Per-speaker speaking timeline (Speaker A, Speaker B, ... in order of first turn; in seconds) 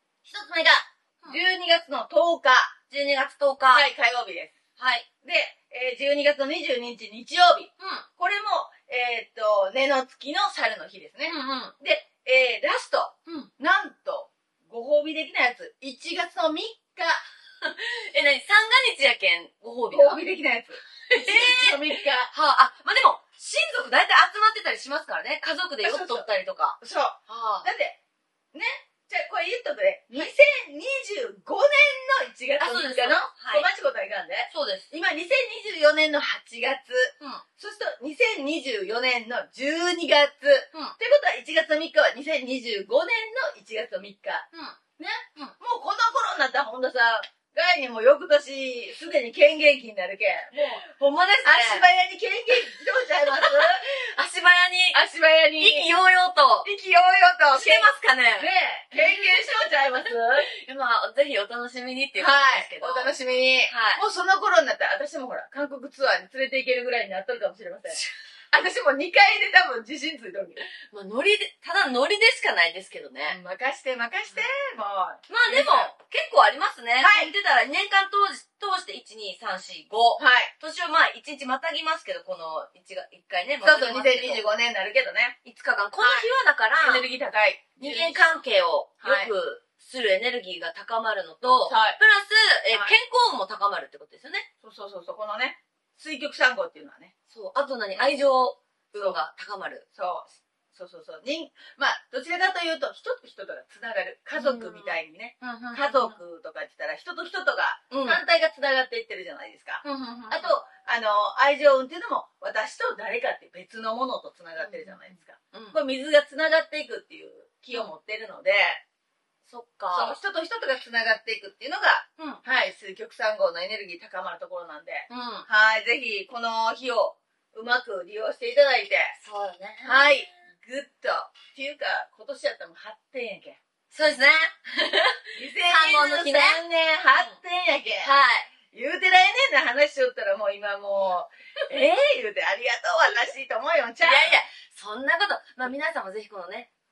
Speaker A: 0.2-1.4, 2.9-3.9, 4.8-5.0, 7.8-8.1, 11.3-11.7, 17.6-20.2, 21.1-27.7, 32.6-33.7, 34.5-34.9, 44.5-44.8, 50.5-51.8, 53.3-55.0, 55.6-56.7, 57.5-64.0, 70.9-73.4, 75.3-84.4, 85.4-87.0, 87.8-94.5, 97.3-99.8, 104.3-106.2, 107.9-108.2, 109.8-110.5, 114.6-115.8, 119.5-120.2, 125.1-125.5, 129.2-130.1, 133.9-137.4, 138.0-138.5, 144.0-146.7
Speaker B: 1.2-2.7, 3.7-4.5, 5.2-17.2, 19.9-22.3, 25.8-26.2, 26.8-28.0, 28.5-44.5, 45.0-50.8, 51.4-53.8, 54.9-56.0, 56.6-60.5, 62.2-68.0, 68.5-70.7, 73.3-75.9, 77.0-77.3, 80.2-80.5, 83.6-85.3, 86.0-86.3, 86.8-88.4, 89.0-89.3, 91.7-92.0, 94.6-97.1, 98.9-99.2, 99.9-118.8, 119.9-129.2, 129.8-133.6, 135.3-138.1, 138.7-144.4